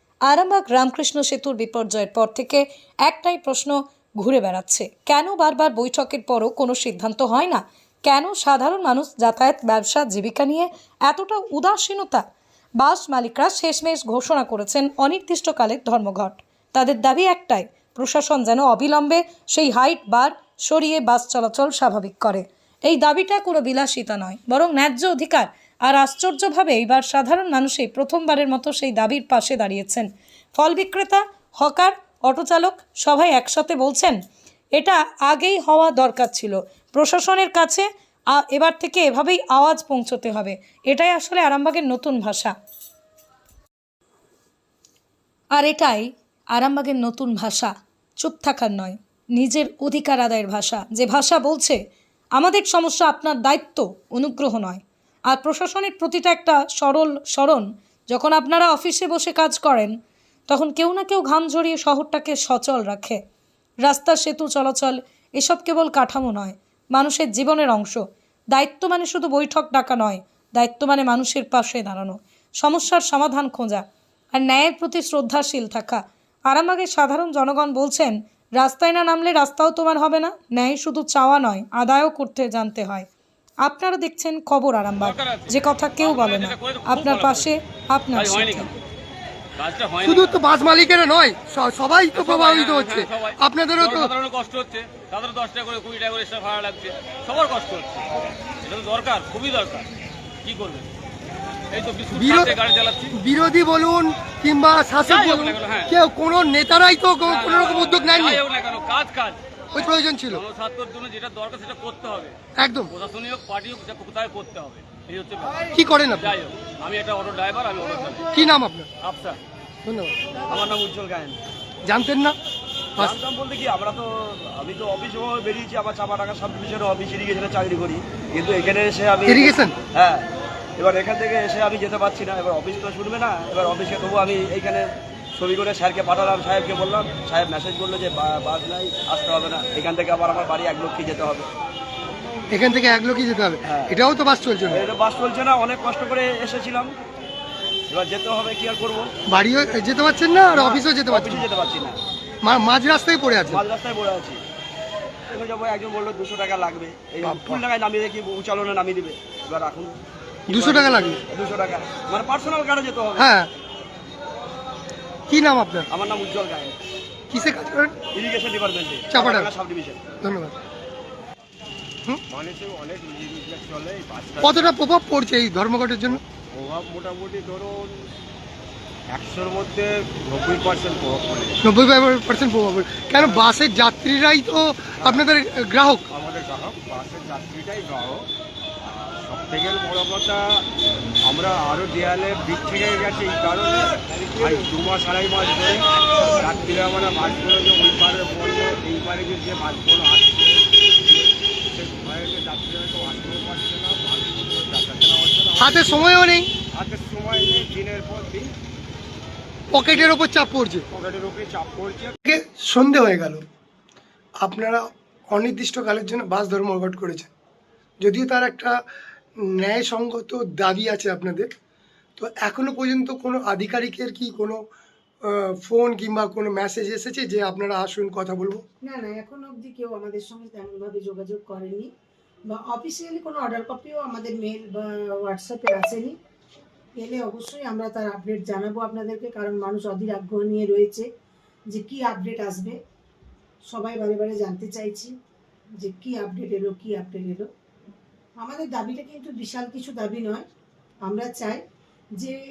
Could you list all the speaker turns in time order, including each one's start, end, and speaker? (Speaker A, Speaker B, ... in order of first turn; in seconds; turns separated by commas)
Speaker A: 0.3-12.2, Speaker A: 12.8-34.2, Speaker A: 34.8-42.5, Speaker A: 45.5-51.8, Speaker A: 52.4-59.9, Speaker A: 60.5-63.2, Speaker A: 63.8-83.1, Speaker A: 83.6-88.7, Speaker B: 85.0-87.5, Speaker B: 88.1-88.7, Speaker B: 89.6-90.4, Speaker C: 90.0-94.1, Speaker B: 92.2-99.9, Speaker B: 100.4-100.9, Speaker B: 101.7-103.2, Speaker C: 102.1-102.5, Speaker C: 103.1-108.4, Speaker B: 105.1-105.9, Speaker B: 107.2-112.4, Speaker C: 109.8-110.4, Speaker C: 112.6-112.9, Speaker B: 112.9-118.5, Speaker C: 115.8-116.3, Speaker C: 118.3-118.9, Speaker B: 119.0-119.4, Speaker C: 119.9-120.2, Speaker D: 120.5-121.4, Speaker C: 121.9-122.4, Speaker D: 123.0-130.3, Speaker C: 129.3-129.8, Speaker D: 130.8-141.5, Speaker C: 142.5-144.8, Speaker D: 143.7-143.9, Speaker D: 144.7-146.9, Speaker D: 147.9-149.1, Speaker C: 149.3-151.5, Speaker D: 150.5-152.0, Speaker C: 152.4-153.6, Speaker D: 153.5-154.4, Speaker D: 155.3-160.0, Speaker C: 157.2-157.6, Speaker D: 160.5-163.3, Speaker C: 160.5-161.2, Speaker C: 163.2-163.5, Speaker C: 165.3-165.9, Speaker D: 165.9-166.8, Speaker C: 167.3-167.9, Speaker D: 168.1-170.0, Speaker C: 169.1-169.5, Speaker C: 170.2-170.6, Speaker E: 172.3-174.7, Speaker C: 174.4-176.2, Speaker E: 176.5-178.1, Speaker E: 179.1-181.6, Speaker C: 181.6-186.0, Speaker E: 183.2-183.4, Speaker E: 185.0-185.3, Speaker E: 186.1-188.3, Speaker E: 188.8-190.7, Speaker E: 191.3-206.1, Speaker C: 205.6-206.5, Speaker E: 206.7-208.5, Speaker C: 209.7-210.8, Speaker E: 209.8-210.1, Speaker E: 210.9-212.2, Speaker C: 212.3-213.4, Speaker C: 214.4-217.3, Speaker C: 218.0-218.8, Speaker C: 219.5-221.5, Speaker C: 222.2-224.6, Speaker C: 225.3-228.6, Speaker F: 228.8-231.9, Speaker F: 232.5-236.2, Speaker F: 237.0-241.1, Speaker F: 241.7-242.8, Speaker F: 243.7-245.1, Speaker F: 245.8-247.5, Speaker F: 248.4-250.4, Speaker F: 251.1-251.6